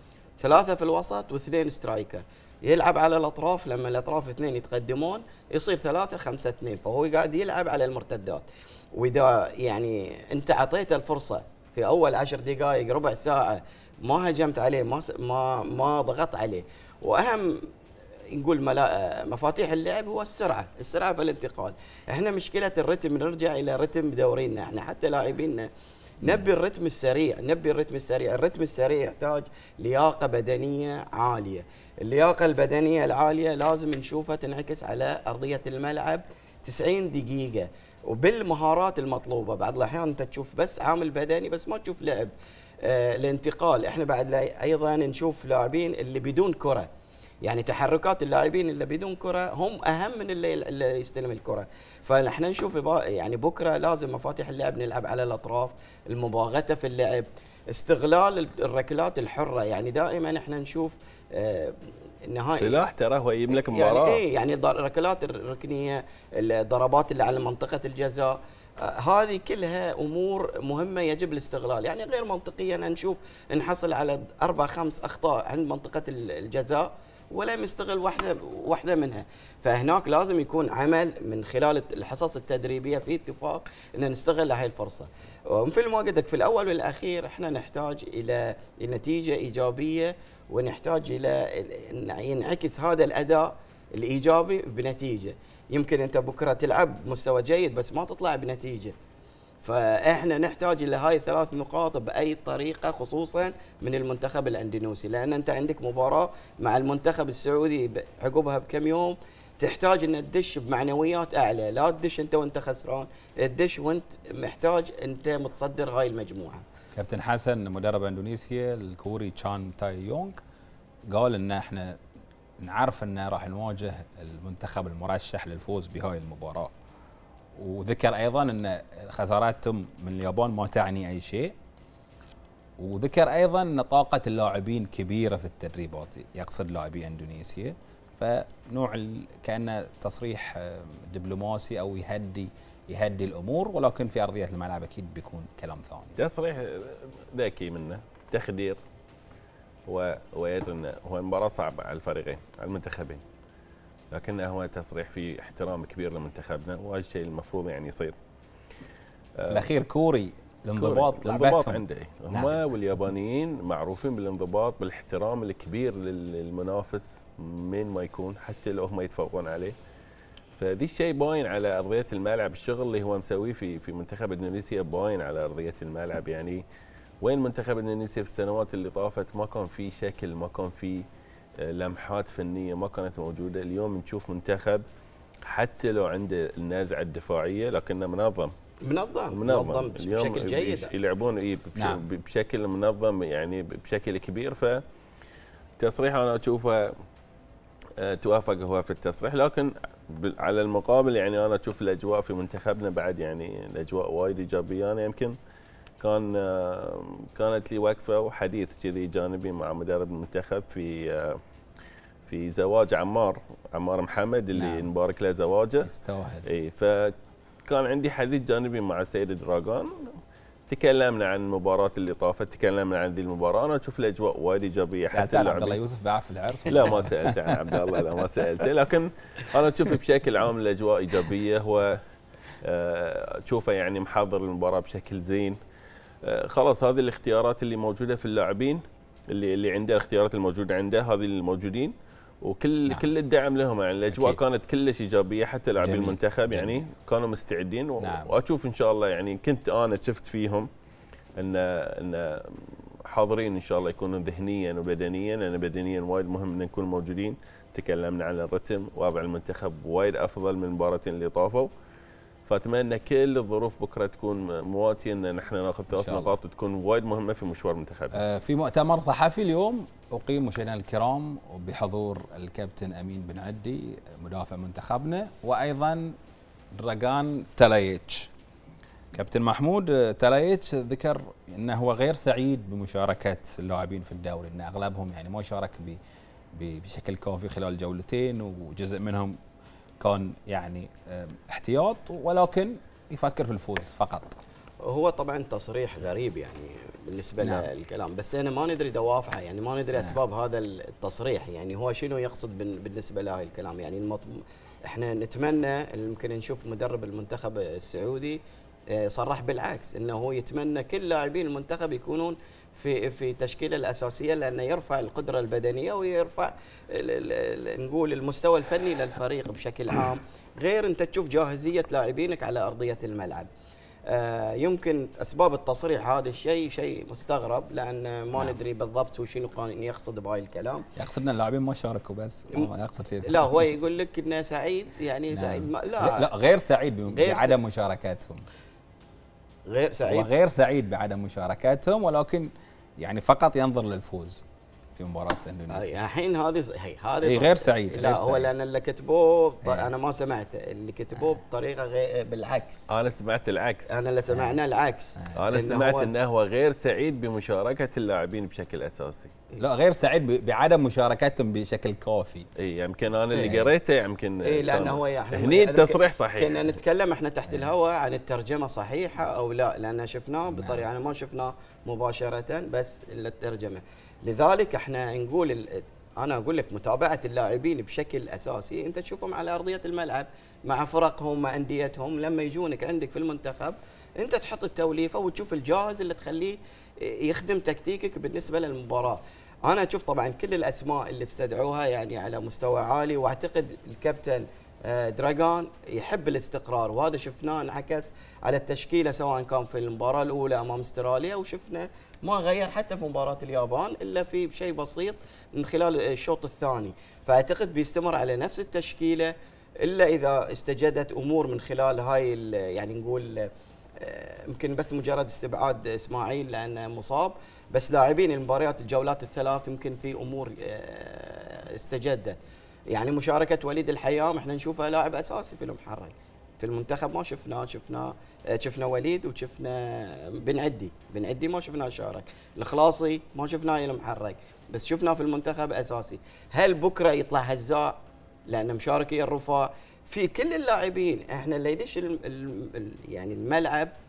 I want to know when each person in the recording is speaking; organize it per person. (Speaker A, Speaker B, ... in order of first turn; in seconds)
Speaker A: 0.4-17.6, 18.3-25.7, 26.2-46.9, 47.4-62.8, 63.5-99.0, 99.6-116.6, 188.8-190.9, 294.8-308.4, 308.9-323.5, 324.1-330.9, 333.2-336.3, 337.1-337.6, 339.7-340.3, 345.7-352.9, 353.9-356.1, 364.4-409.3, 409.8-422.4, 422.9-438.0, 438.5-443.9
Speaker B: 62.5-64.2, 146.2-148.8, 149.9-153.2, 154.1-158.2, 159.4-159.7, 160.8-169.8, 170.6-176.6, 177.2-181.1, 181.6-184.8, 185.5-188.5, 189.3-194.8, 195.8-196.9, 198.0-205.4, 206.0-211.4, 212.3-215.9, 216.4-217.2, 217.7-225.8, 226.7-232.0, 232.6-235.6, 236.2-250.7, 251.4-261.7, 262.5-268.2, 352.9-353.9, 355.3-359.3, 362.6-366.7
Speaker C: 116.9-120.4, 121.1-122.0, 122.6-126.7, 127.6-131.6, 132.8-146.2, 159.5-162.7, 191.8-192.0, 214.5-214.9, 215.8-216.5, 225.1-227.7, 244.1-244.4, 245.8-246.8, 248.0-248.3, 265.9-266.3, 268.1-276.2, 276.7-278.3, 279.1-286.0, 286.5-289.4, 290.0-294.4, 297.4-297.7, 331.0-333.7, 335.3-338.5, 340.1-344.4, 345.0-346.0, 347.2-348.5, 349.6-349.9, 354.3-354.6, 359.6-362.5, 363.4-363.7, 370.5-370.9